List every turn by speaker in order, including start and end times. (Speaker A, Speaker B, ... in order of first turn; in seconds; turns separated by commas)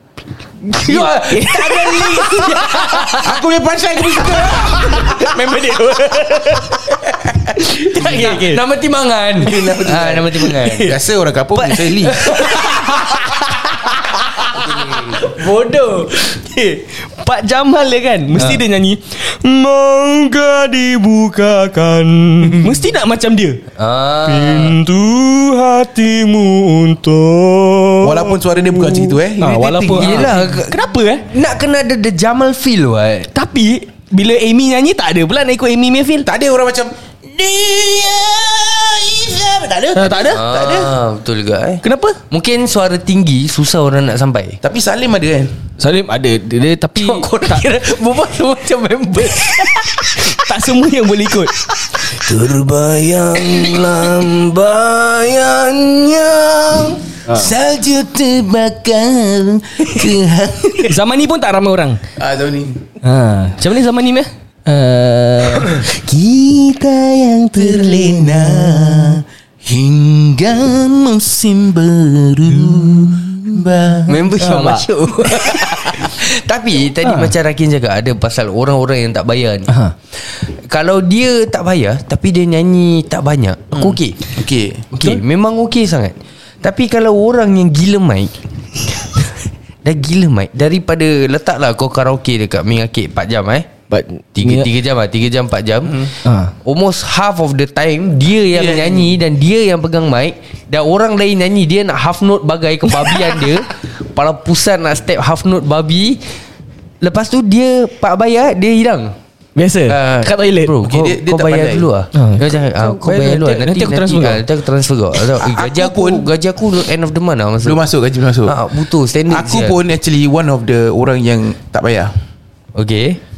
Speaker A: 0.6-3.3, Speaker B: 0.8-3.2, Speaker C: 3.2-5.3, Speaker A: 4.2-7.0, Speaker A: 7.5-8.6, Speaker B: 7.8-10.9, Speaker A: 9.4-11.0, Speaker C: 9.5-10.3, Speaker C: 10.8-12.3, Speaker A: 11.6-14.6, Speaker B: 12.2-13.3, Speaker B: 14.5-16.3, Speaker A: 16.2-23.6, Speaker B: 23.8-24.8, Speaker A: 24.2-31.3, Speaker C: 28.0-30.6, Speaker B: 30.0-33.3, Speaker A: 33.3-36.3, Speaker C: 36.2-40.9, Speaker A: 39.9-40.9, Speaker B: 40.2-44.6, Speaker A: 41.8-42.2, Speaker C: 44.6-45.5, Speaker A: 45.8-47.6, Speaker B: 47.0-50.4, Speaker A: 50.2-54.5, Speaker C: 52.3-61.0, Speaker A: 57.2-57.5, Speaker A: 60.8-62.0, Speaker C: 62.2-62.9, Speaker A: 63.0-65.9, Speaker C: 66.1-74.2, Speaker A: 72.5-73.3, Speaker B: 74.1-84.2, Speaker A: 74.4-76.0, Speaker A: 77.0-77.3, Speaker A: 79.7-79.9, Speaker C: 83.7-84.8, Speaker B: 84.9-88.3, Speaker B: 89.8-93.7, Speaker A: 93.9-94.7, Speaker B: 94.4-96.1, Speaker C: 95.9-96.1, Speaker A: 96.2-96.5, Speaker B: 96.6-106.2, Speaker C: 98.5-99.1, Speaker B: 107.0-109.1, Speaker A: 109.6-110.8, Speaker B: 109.9-117.8, Speaker C: 110.8-111.9, Speaker A: 112.1-114.5, Speaker C: 115.4-116.3, Speaker C: 117.6-118.7, Speaker B: 118.5-119.8, Speaker C: 119.3-122.1, Speaker B: 122.8-123.2